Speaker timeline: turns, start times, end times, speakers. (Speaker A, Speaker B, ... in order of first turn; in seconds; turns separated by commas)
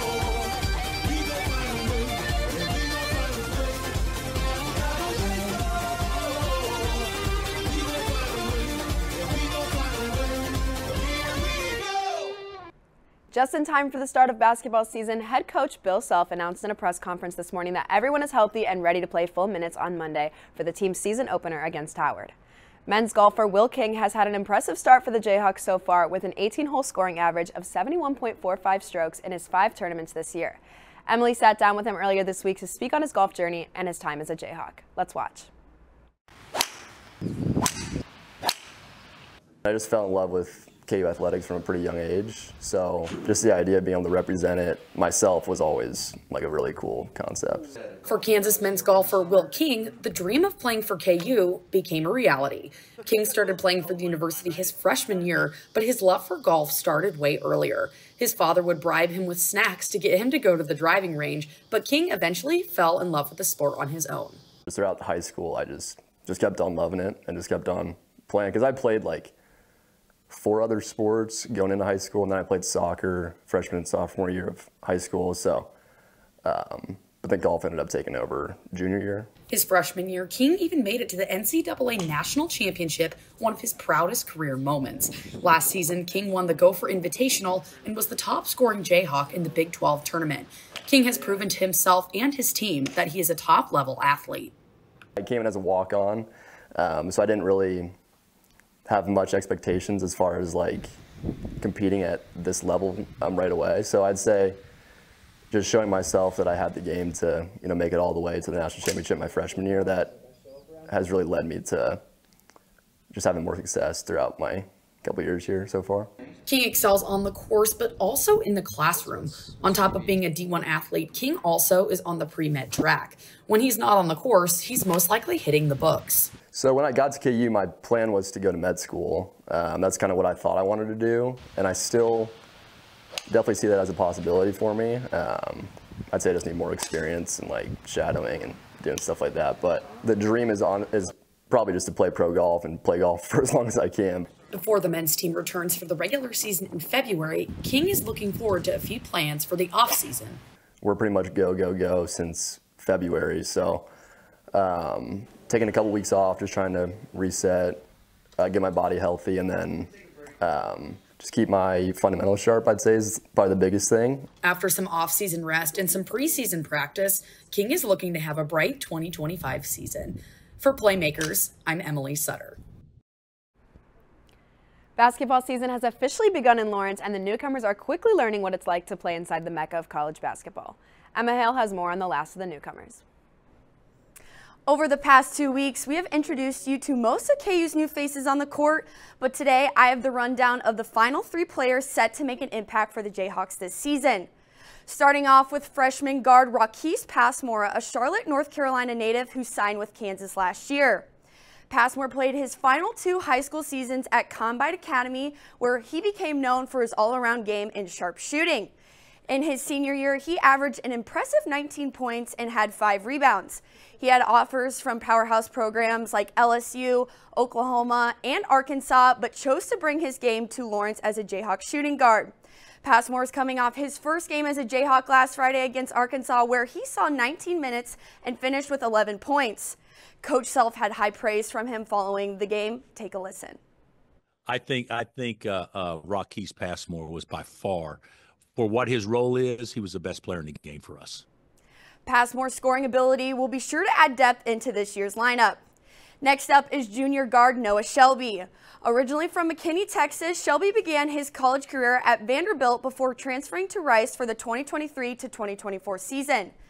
Speaker A: 13.3-22.3, Speaker A: 22.9-35.5, Speaker B: 39.6-47.7, Speaker C: 48.0-64.4, Speaker B: 64.7-69.3, Speaker B: 70.3-75.7, Speaker B: 76.4-79.3, Speaker C: 79.5-94.5, Speaker B: 95.2-98.0, Speaker B: 98.9-101.0, Speaker B: 101.6-104.6, Speaker B: 105.5-110.1, Speaker B: 110.9-112.0, Speaker B: 113.1-116.1, Speaker C: 116.5-126.3, Speaker B: 126.5-132.4, Speaker B: 133.3-144.3, Speaker C: 144.5-150.4, Speaker B: 150.8-153.9, Speaker B: 154.5-157.8, Speaker B: 158.4-164.3, Speaker C: 164.4-172.6, Speaker A: 175.0-183.0, Speaker D: 184.7-194.3, Speaker D: 194.9-201.1, Speaker D: 201.7-208.7, Speaker D: 209.3-233.6, Speaker E: 234.5-238.0, Speaker E: 238.6-241.2, Speaker D: 242.1-245.6, Speaker D: 246.2-256.5